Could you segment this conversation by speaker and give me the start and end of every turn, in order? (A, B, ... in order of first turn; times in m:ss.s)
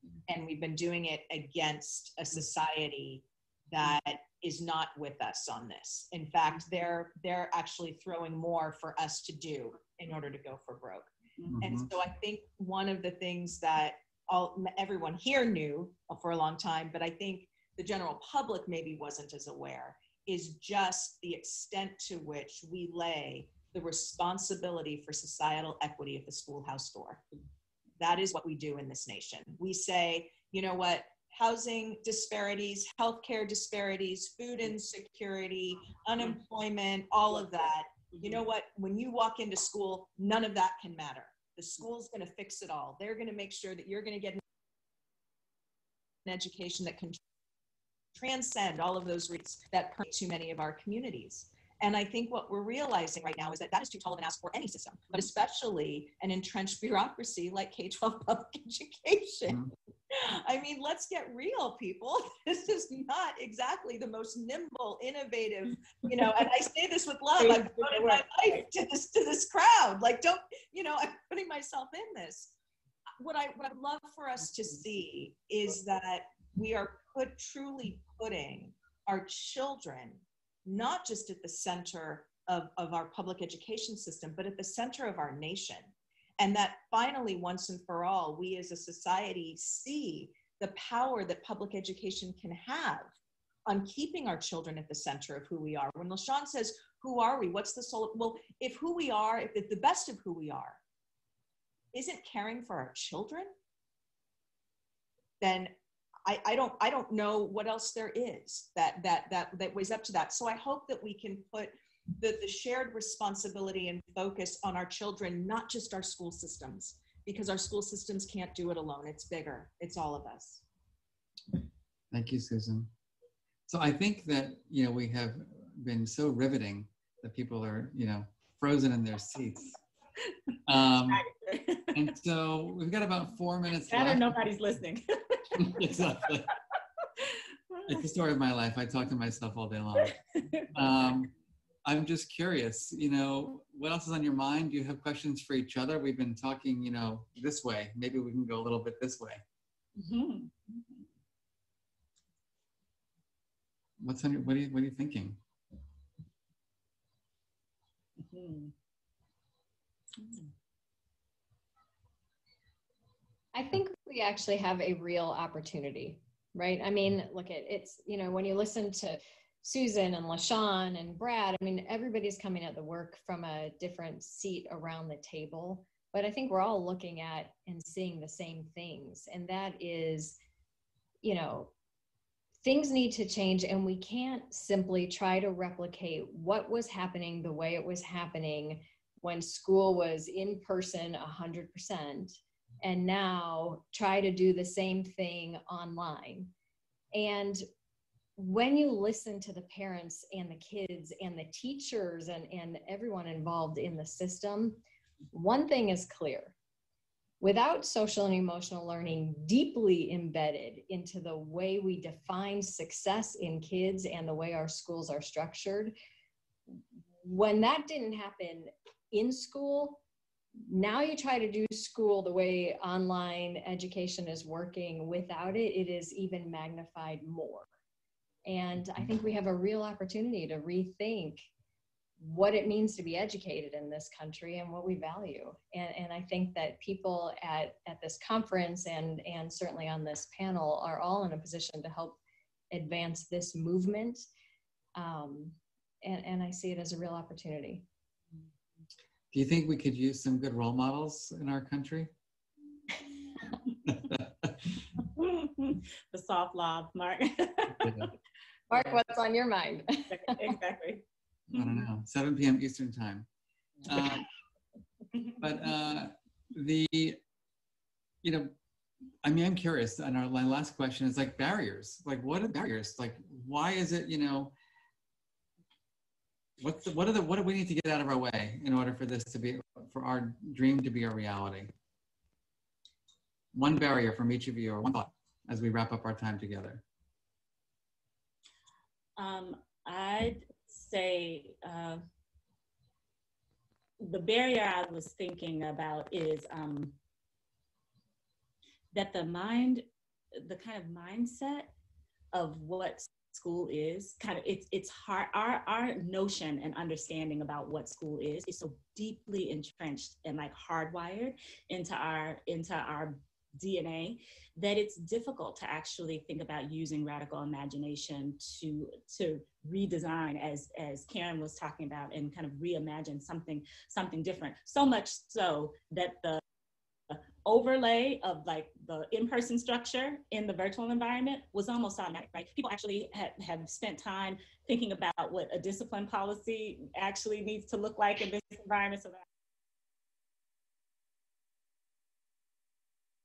0:00.3-0:27.2 A
0:11.5-0:11.9 B
0:28.0-0:44.4 A
0:46.2-0:47.2 A
0:48.2-1:12.5 A
1:07.4-1:08.6 C
1:13.2-1:33.1 A
1:33.7-1:40.8 A
1:41.9-1:43.5 A
1:45.4-1:45.7 A
1:46.2-2:00.6 A
2:02.1-2:02.9 B
2:03.7-2:09.8 B
2:10.6-2:11.2 B
2:11.1-2:11.9 C
2:11.9-2:14.4 B
2:13.9-2:15.8 C
2:15.6-2:16.5 B
2:17.9-2:20.2 B
2:20.7-2:21.3 B
2:21.8-2:29.4 B
2:30.0-2:31.0 C
2:34.0-2:35.4 B
2:38.2-2:38.7 C
2:40.2-2:40.5 C
2:43.5-3:00.4 D
3:01.2-3:01.7 D
3:02.6-3:16.5 D
3:17.1-3:17.6 D
3:18.4-3:26.6 D
3:27.4-3:35.9 D
3:36.7-3:40.0 D
3:40.6-3:47.7 D
3:48.4-3:51.5 D
3:52.2-4:02.2 D
4:02.7-4:04.2 D
4:05.0-4:07.8 D
4:09.3-4:12.1 B
4:13.9-4:14.5 B
4:15.0-4:18.1 C
4:17.8-4:18.1 B
4:18.7-4:20.6 D
4:20.1-4:21.8 C
4:21.5-4:23.3 B
4:23.8-4:24.3 B
4:25.4-4:27.2 B
4:28.2-4:28.6 B
4:29.2-4:34.5 B
4:36.6-4:41.7 B
4:43.5-4:46.8 B
4:49.2-4:52.0 C
4:54.0-4:57.0 C
4:58.9-5:01.7 C
5:02.3-5:26.4 C
5:27.1-5:39.2 C